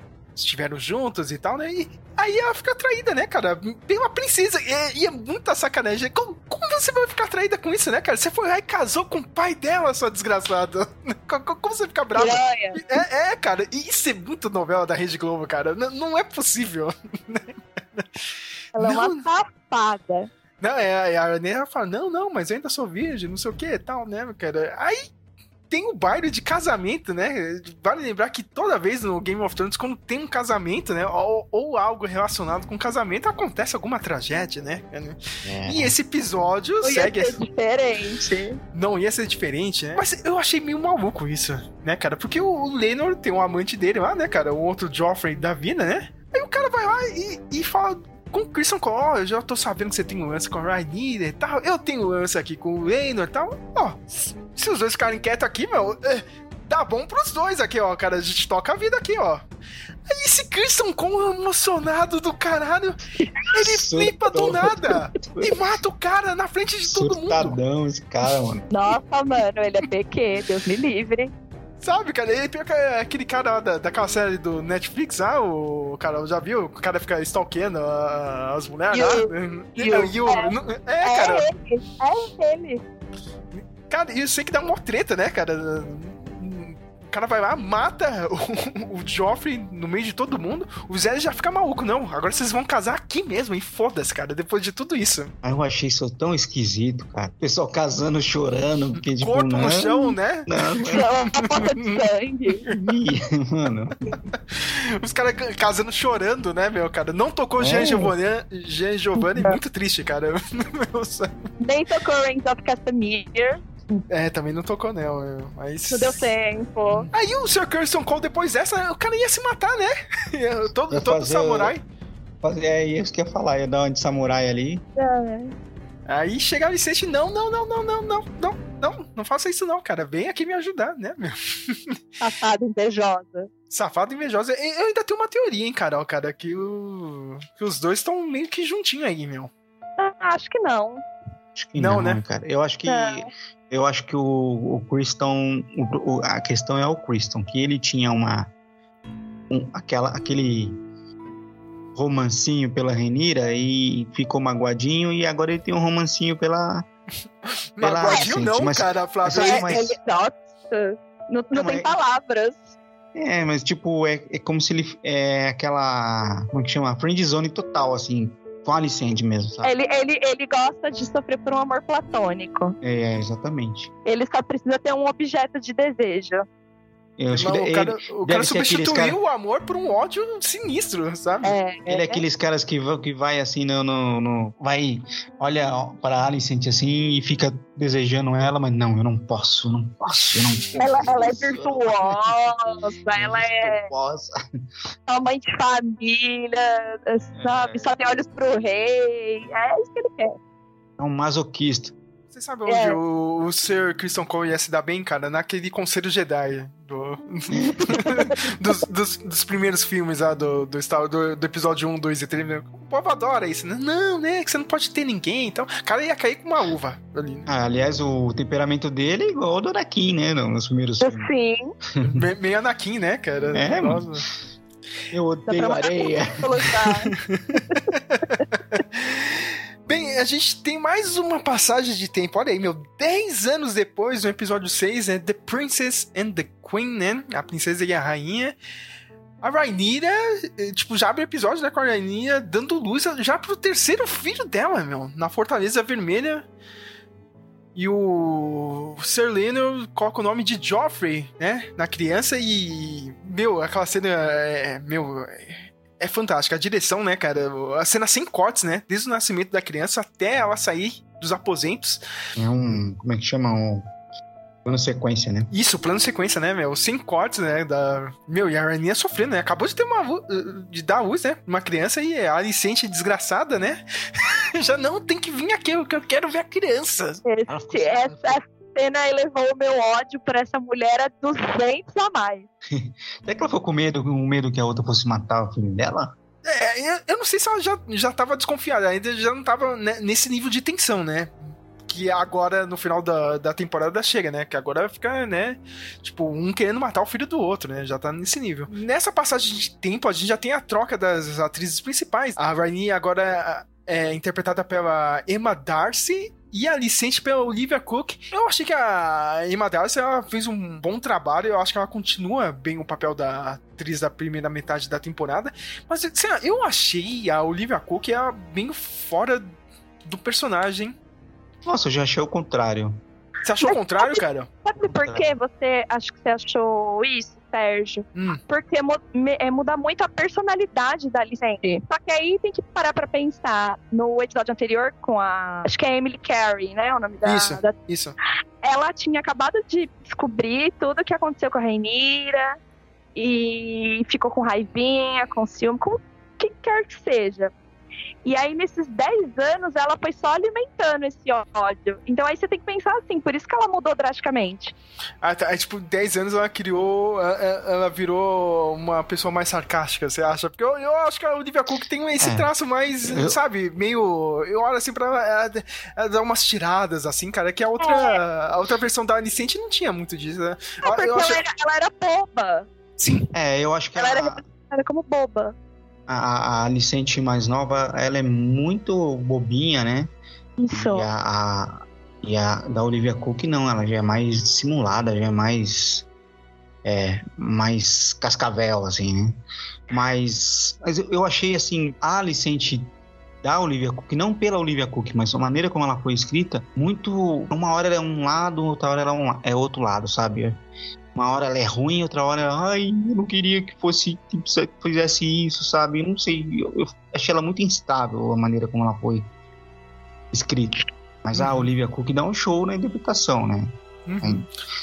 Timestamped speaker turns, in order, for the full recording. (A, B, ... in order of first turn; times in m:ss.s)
0:00.4-0:18.1 A
0:12.2-0:12.8 B
0:18.8-0:20.3 B
0:18.8-0:19.2 A
0:20.6-0:25.1 A
0:25.7-0:37.4 A
0:35.4-0:36.0 C
0:36.8-0:38.6 B
0:38.7-0:59.4 A
1:00.1-1:03.0 A
1:03.5-1:07.6 A
1:03.6-1:05.6 C
1:06.9-1:08.7 C
1:08.7-1:11.3 B
1:11.8-1:21.5 A
1:18.9-1:22.8 B
1:23.6-1:35.3 A
1:35.4-1:41.0 C
1:39.2-1:42.1 A
1:40.9-1:42.6 B
1:42.7-1:44.1 C
1:44.5-1:51.4 A
1:47.6-1:48.1 C
1:51.6-1:53.6 B
1:54.1-1:56.3 A
1:55.9-1:57.1 B
1:57.1-2:01.8 A
2:00.9-2:01.7 C
2:02.4-2:04.8 C
2:05.0-2:05.5 B
2:06.1-2:12.0 A
2:12.2-2:13.5 B
2:13.7-2:19.5 A
2:20.0-2:21.0 B
2:21.6-2:28.5 C
2:21.8-2:22.2 A
2:22.9-2:23.3 B
2:29.5-2:30.8 C
2:32.0-2:36.9 C
2:37.8-2:39.7 A
2:37.8-2:40.0 C
2:39.3-2:42.8 B
2:41.5-2:41.9 C
2:43.2-2:49.7 C
2:49.6-2:52.8 B
2:52.8-2:53.9 C
2:54.1-2:56.4 B
2:57.2-2:59.2 C
2:57.3-3:01.5 A
3:01.4-3:02.2 B
3:01.9-3:14.4 C
3:10.1-3:10.5 A
3:10.8-3:13.9 B
3:15.1-3:20.4 B
3:17.4-3:17.9 C
3:21.0-3:21.9 C
3:22.3-3:37.5 A
3:22.7-3:23.0 B
3:27.5-3:28.1 C
3:37.5-3:41.3 C
3:41.0-3:41.7 B
3:42.0-3:42.3 C
3:42.0-3:44.2 A
3:43.5-3:44.3 C
3:45.1-3:46.4 C
3:45.5-3:47.1 B
3:46.9-3:48.2 A
3:48.8-3:58.6 A
3:59.4-4:06.5 A
4:07.8-4:22.0 A
4:22.4-4:23.9 C
4:24.6-4:25.5 C
4:25.5-4:37.2 A
4:37.2-4:42.5 B
4:37.5-4:38.4 C
4:42.7-4:46.1 C
4:46.4-4:51.4 A
4:51.9-5:19.5 A
5:20.0-5:21.0 A
5:21.6-5:23.0 C
5:23.4-5:24.5 A
5:23.6-5:37.8 B
5:24.8-5:25.4 C
5:28.2-5:28.4 A
5:37.2-5:38.2 A
5:38.6-5:42.6 B
5:43.2-5:47.5 B
5:48.2-5:54.7 B
5:55.2-6:11.4 A
6:02.2-6:02.5 C
6:03.0-6:03.4 C
6:07.8-6:08.2 B
6:10.8-6:12.7 B
6:13.0-6:13.2 A
6:13.3-6:14.4 C
6:14.0-6:15.6 B
6:16.1-6:20.1 C
6:20.6-6:21.1 B
6:20.7-6:26.1 C
6:26.8-6:29.4 C
6:29.9-6:32.9 C
6:33.4-6:40.6 C
6:41.2-6:49.3 C
6:50.3-6:54.5 C
6:51.3-6:51.7 A
6:54.1-6:54.5 A